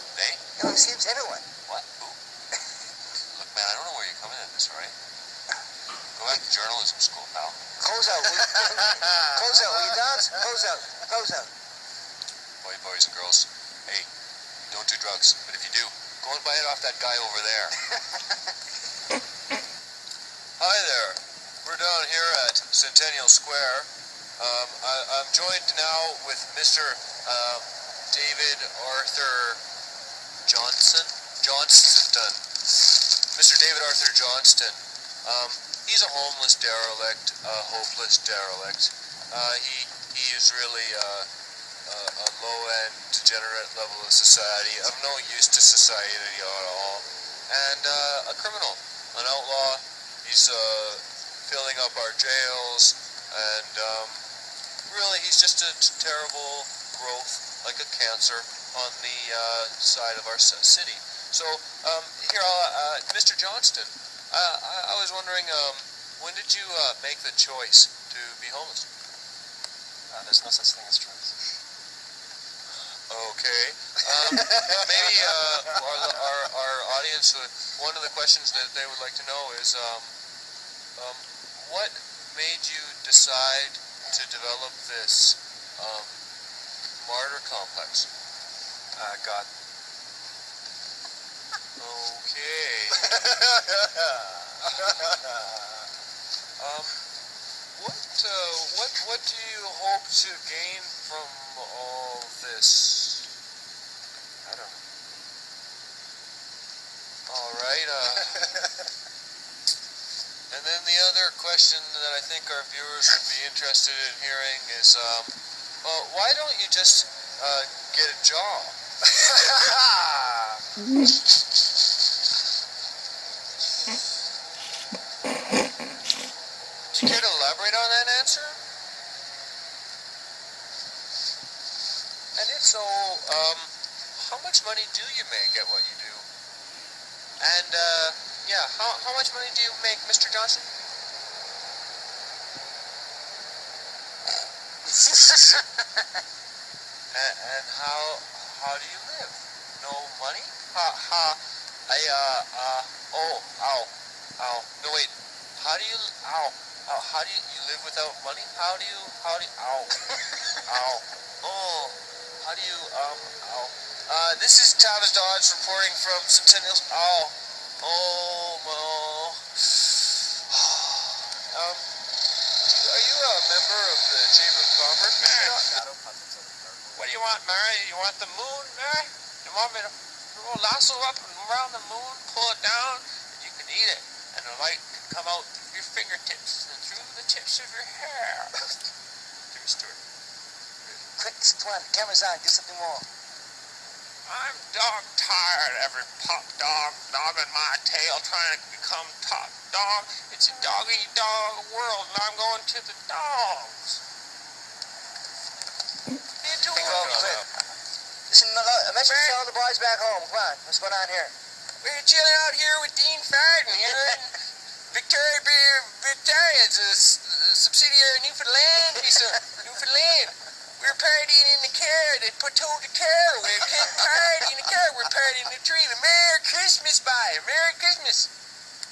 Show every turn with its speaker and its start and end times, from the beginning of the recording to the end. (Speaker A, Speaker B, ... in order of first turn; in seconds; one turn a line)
Speaker A: 0.1-0.5
Speaker B: 0.6-1.5
Speaker A: 1.7-2.2
Speaker A: 3.1-5.0
Speaker A: 6.2-7.6
Speaker B: 7.8-11.5
Speaker A: 12.6-14.1
Speaker A: 14.7-17.9
Speaker A: 20.6-29.6
Speaker A: 30.4-41.3
Speaker A: 41.9-54.3
Speaker A: 54.9-68.9
Speaker C: 70.1-71.4
Speaker A: 72.9-80.2
Speaker A: 81.0-86.2
Speaker A: 87.0-88.1
Speaker A: 89.0-89.5
Speaker A: 91.8-95.4
Speaker A: 96.6-97.1
Speaker A: 97.7-103.3
Speaker A: 104.4-104.8
Speaker A: 107.3-108.8
Speaker A: 110.5-118.8
Speaker A: 119.4-120.0
Speaker A: 126.9-128.6
Speaker A: 132.3-136.3
Speaker A: 137.4-140.7
Speaker B: 144.9-146.1
Speaker A: 147.1-171.9
Speaker A: 172.6-175.8
Speaker C: 175.2-177.2
Speaker A: 176.9-188.7
Speaker A: 189.5-190.0
Speaker B: 191.0-193.1
Speaker A: 194.3-204.0
Speaker A: 206.4-207.5
Speaker B: 206.7-207.5
Speaker B: 208.3-211.3
Speaker A: 209.0-209.4
Speaker A: 211.8-228.3